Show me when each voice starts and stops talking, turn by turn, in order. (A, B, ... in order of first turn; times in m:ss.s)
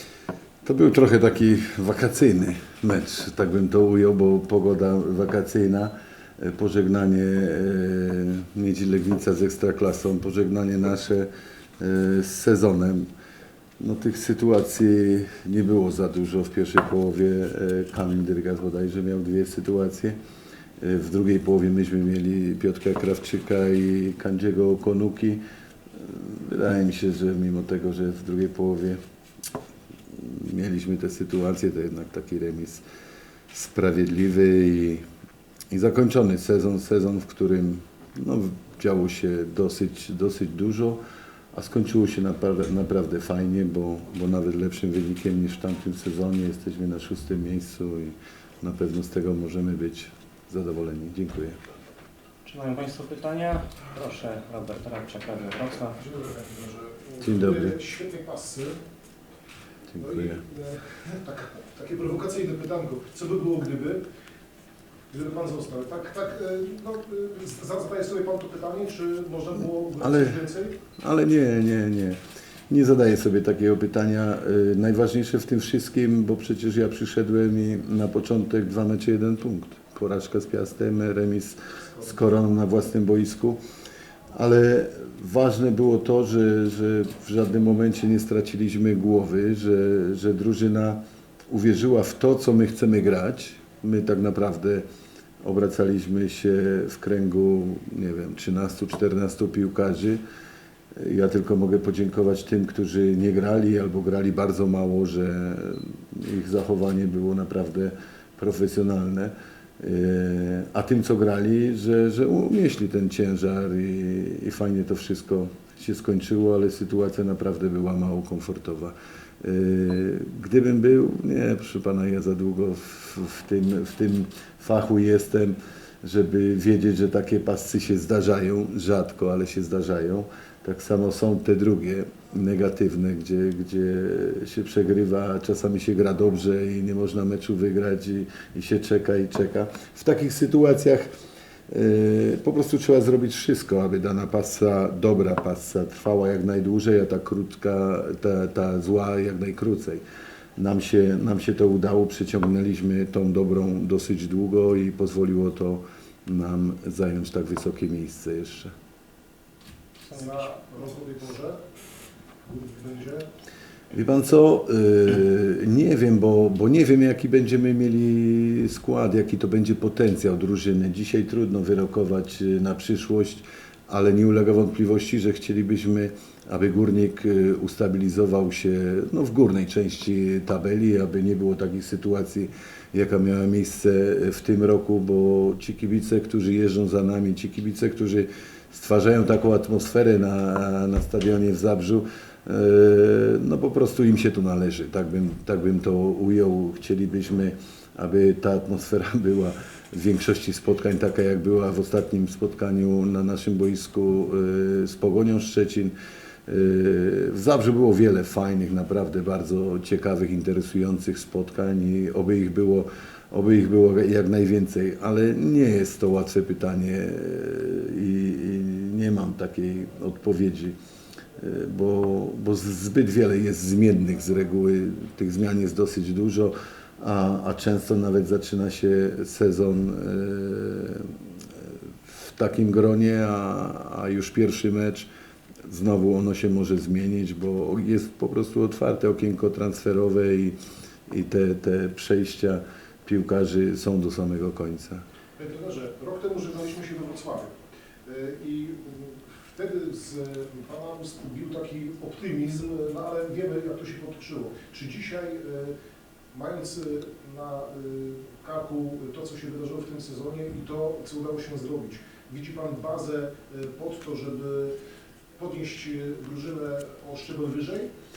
0:00.6-0:13.1 A
0:13.8-0:20.2 A
0:20.8-0:25.4 A
0:25.9-0:29.0 A
0:30.1-0:32.8 A
0:33.5-0:35.1 A
0:35.7-0:41.0 A
0:41.5-0:51.6 A
0:52.5-0:56.0 B
0:56.0-0:58.8 C
0:57.2-0:57.8 A
0:59.9-1:00.4 A
1:00.0-1:04.0 C
1:05.1-1:10.8 C
1:10.0-1:12.2 A
1:12.7-1:23.6 A
1:24.3-1:34.8 A
1:35.4-1:40.2 A
1:41.0-2:21.1 A
2:21.7-2:30.0 A
2:30.6-2:38.7 A
2:40.0-2:40.6 B
2:40.1-2:41.6 C
2:42.4-2:43.3 C
2:43.9-3:25.9 A
3:26.5-3:40.8 A
3:41.4-3:51.2 A
3:52.1-3:55.1 A
3:55.7-4:00.6 A
4:01.1-4:05.0 A
4:05.4-4:15.8 C
4:16.3-4:24.8 C
4:25.4-4:27.9 C